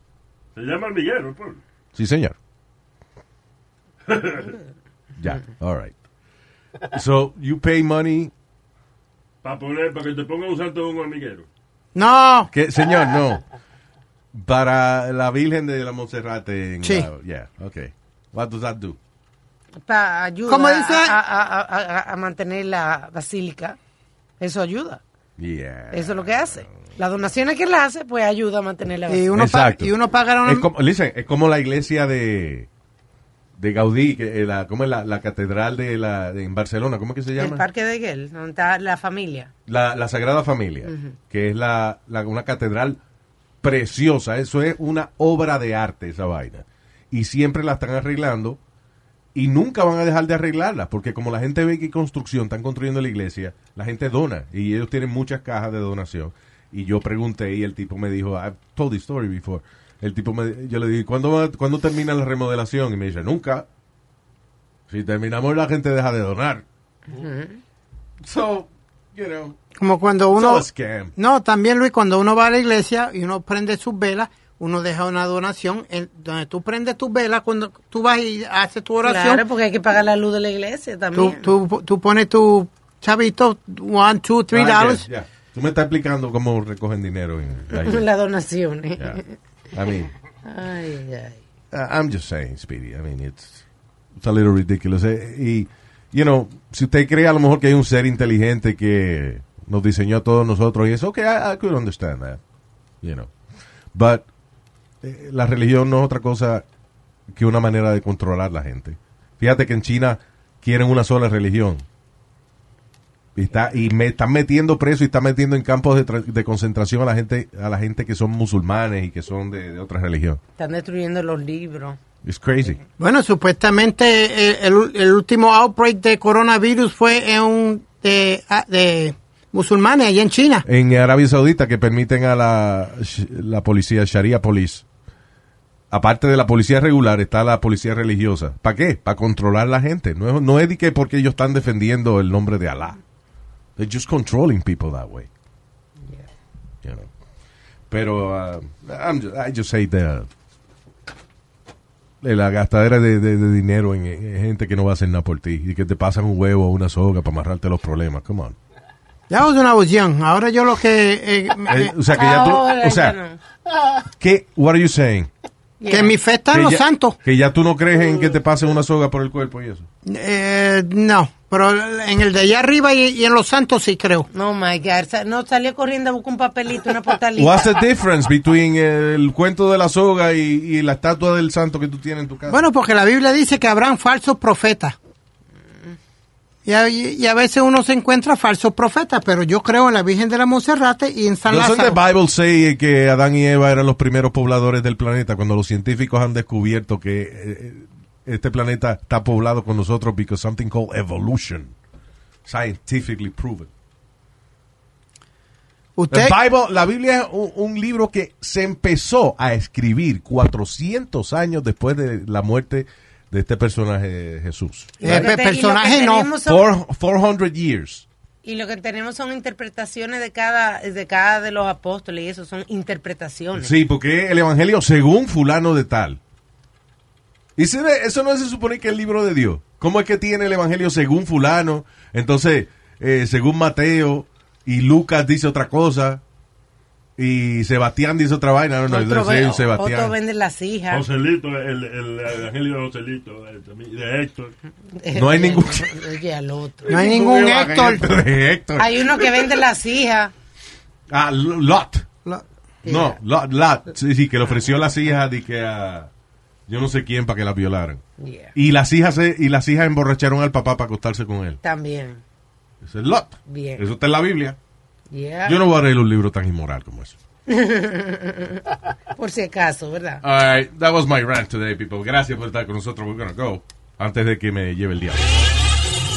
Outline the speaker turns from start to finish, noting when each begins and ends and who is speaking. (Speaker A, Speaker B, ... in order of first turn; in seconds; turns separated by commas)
Speaker A: 0.5-1.6, Speaker B: 1.9-2.4, Speaker A: 4.1-4.5, Speaker B: 5.2-5.9, Speaker B: 6.9-8.3, Speaker A: 9.4-11.5, Speaker C: 11.9-12.5, Speaker B: 12.5-13.4, Speaker B: 14.3-19.0, Speaker C: 16.8-17.1, Speaker D: 19.9-23.8, Speaker C: 20.5-21.1, Speaker D: 24.4-25.0, Speaker B: 25.4-26.8, Speaker D: 25.9-29.2, Speaker C: 29.1-30.6, Speaker B: 29.3-29.9, Speaker B: 30.4-32.7, Speaker B: 33.6-37.6, Speaker D: 37.4-39.5, Speaker B: 39.7-43.0, Speaker D: 40.8-41.2, Speaker B: 43.6-48.6, Speaker B: 49.3-63.6, Speaker B: 64.9-66.6, Speaker D: 67.1-67.6, Speaker B: 68.2-69.6, Speaker C: 69.8-79.4, Speaker B: 70.3-71.1, Speaker D: 79.0-81.5, Speaker C: 81.1-85.0, Speaker B: 84.5-88.1, Speaker D: 87.7-89.4, Speaker B: 89.7-90.1, Speaker D: 90.4-91.4, Speaker B: 91.7-93.6, Speaker B: 94.2-102.4, Speaker B: 103.0-103.3, Speaker B: 103.9-104.2, Speaker B: 105.0-106.6, Speaker B: 107.3-111.8, Speaker B: 113.4-120.4, Speaker D: 120.6-122.0, Speaker B: 122.2-122.8, Speaker C: 123.0-130.6, Speaker B: 130.7-134.8, Speaker B: 135.9-143.0, Speaker B: 143.8-145.3, Speaker B: 146.8-147.1, Speaker B: 147.9-150.3, Speaker B: 152.2-158.6, Speaker C: 159.3-161.9, Speaker B: 161.7-163.2, Speaker D: 162.1-163.4, Speaker B: 164.2-165.3, Speaker D: 165.8-166.1, Speaker C: 165.9-167.2, Speaker B: 166.5-169.9, Speaker C: 170.1-174.3, Speaker D: 174.3-177.7, Speaker B: 177.4-182.6, Speaker C: 182.5-184.9, Speaker C: 186.6-192.0, Speaker B: 191.5-201.7, Speaker B: 202.4-203.7, Speaker C: 205.9-206.4, Speaker B: 206.1-215.3, Speaker C: 215.0-216.3, Speaker D: 215.0-216.6, Speaker B: 216.4-218.1, Speaker D: 218.4-223.7, Speaker B: 223.6-226.2, Speaker B: 227.6-236.2, Speaker B: 237.2-240.1, Speaker D: 238.9-241.1, Speaker A: 240.9-244.5, Speaker D: 244.9-246.9, Speaker B: 245.1-245.9, Speaker B: 246.9-249.0, Speaker C: 246.9-248.0, Speaker D: 248.8-250.3, Speaker B: 251.1-252.1, Speaker D: 252.8-253.2, Speaker B: 252.9-256.1, Speaker B: 256.7-258.0, Speaker D: 258.2-258.6, Speaker B: 258.6-261.6, Speaker D: 261.6-262.2, Speaker B: 262.8-264.6, Speaker D: 263.5-263.8, Speaker D: 265.1-265.6, Speaker B: 265.4-267.1, Speaker D: 267.5-268.6, Speaker D: 269.1-270.2, Speaker B: 270.2-275.2